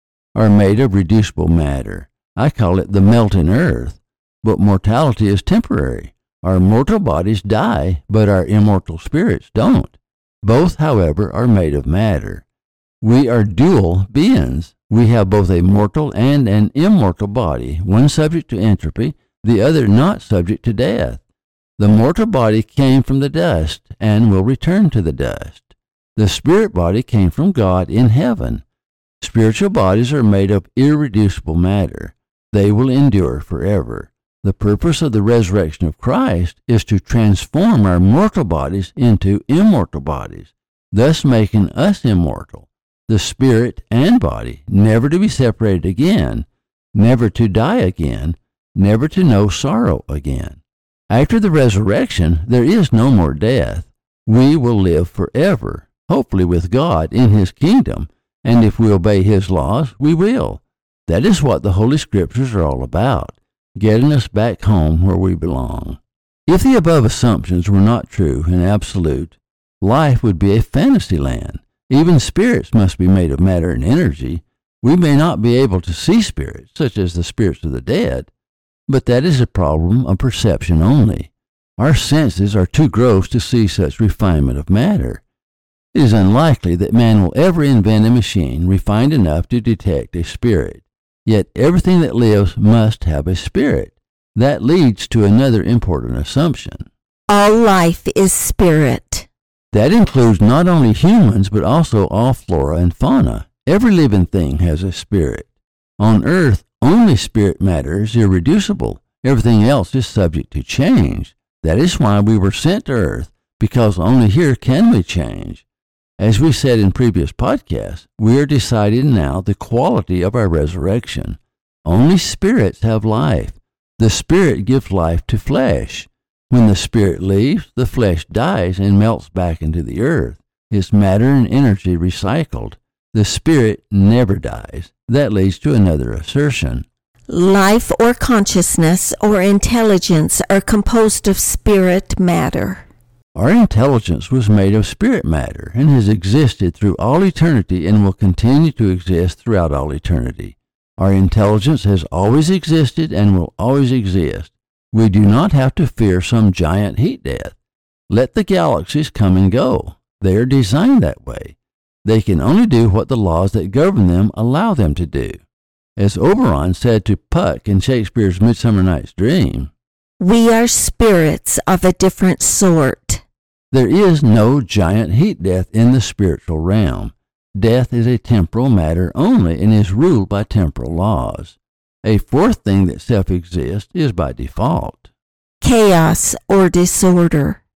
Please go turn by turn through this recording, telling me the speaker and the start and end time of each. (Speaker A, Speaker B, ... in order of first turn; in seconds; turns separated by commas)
Speaker A: 0.3-12.4, Speaker A: 13.0-21.2, Speaker A: 21.8-28.6, Speaker A: 29.2-78.3, Speaker A: 78.9-85.2, Speaker A: 85.9-96.9, Speaker B: 97.3-99.3, Speaker A: 99.7-115.6, Speaker A: 116.2-136.8, Speaker B: 137.3-142.8, Speaker A: 143.3-157.6, Speaker A: 158.1-165.4, Speaker A: 166.0-169.7, Speaker B: 170.2-173.2, Speaker A: 173.7-185.1, Speaker B: 185.6-187.6